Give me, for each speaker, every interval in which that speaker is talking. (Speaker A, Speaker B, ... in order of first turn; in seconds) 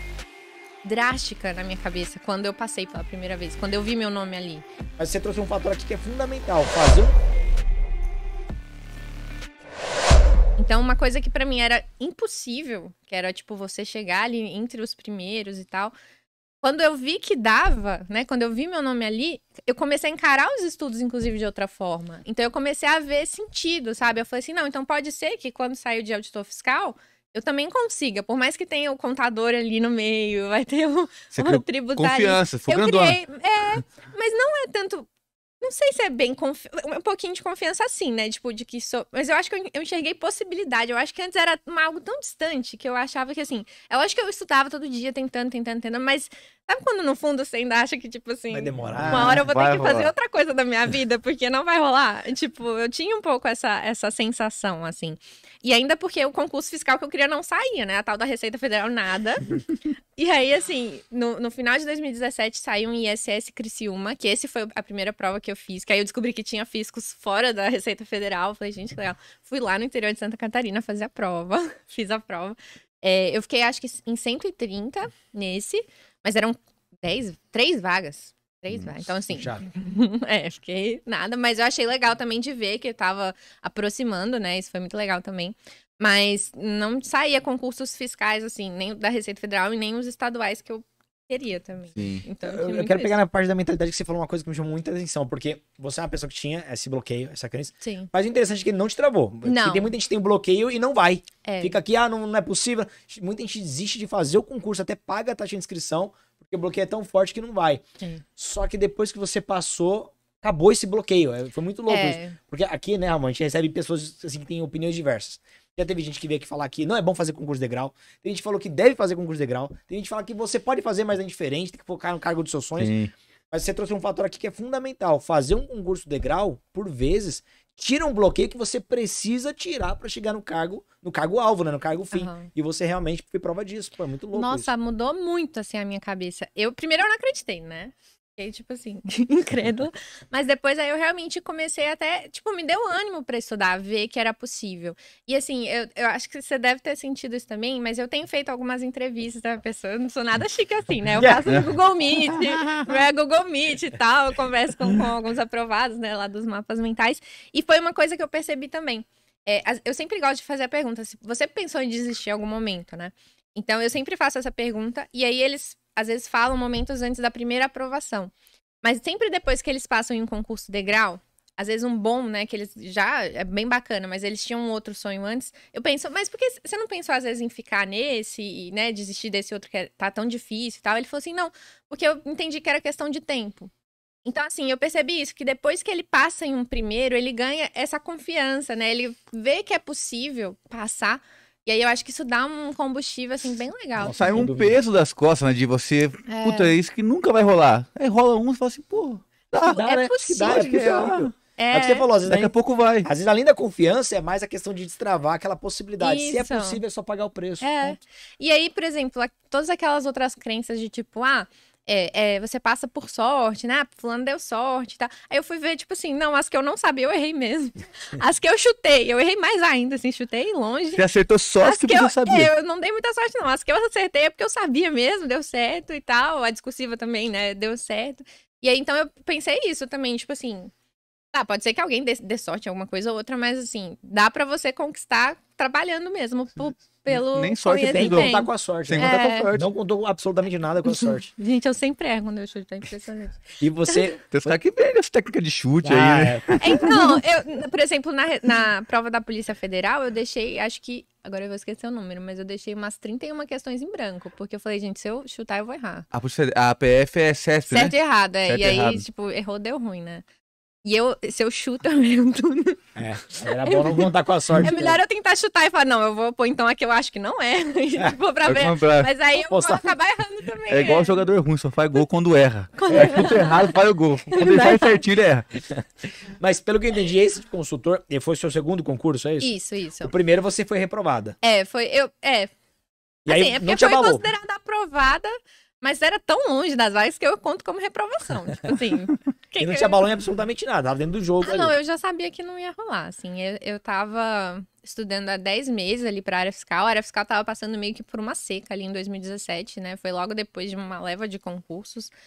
Speaker A: 0.8-4.6, 10.6-15.9, 16.6-35.1, 35.6-59.6, 60.1-93.2, 97.8-98.1, 99.4-99.9, 101.4-101.8, 111.9-112.3, 132.1-132.5, 134.3-183.7, 184.2-194.4, 196.3-196.7, 199.7-202.1, 206.0-206.8, 207.6-221.0, 221.6-230.7, 231.3-239.5, 240.9-244.0, 246.6-256.1, 257.7-260.2, 260.8-271.2, 272.8-273.7, 274.3-275.0, 279.4-280.1, 281.4-282.5, 283.3-290.0, 291.4-302.1
Speaker B: 5.0-7.2, 48.5-49.4, 79.3-79.7, 92.4-107.8, 108.4-123.0, 123.5-134.7, 151.2-151.4, 194.0-194.8, 199.7-208.0, 237.8-241.3, 243.6-244.6, 245.8-246.8, 262.9-265.0, 269.4-269.9, 275.7-281.4, 283.2-284.2, 289.6-291.7
Speaker C: 31.3-33.2, 48.9-50.1, 92.0-92.2, 122.8-123.1, 194.1-199.8, 200.4-201.3, 202.2-203.1, 220.9-222.5, 237.1-239.7, 244.3-247.1, 256.1-259.0, 268.4-269.1, 270.7-275.5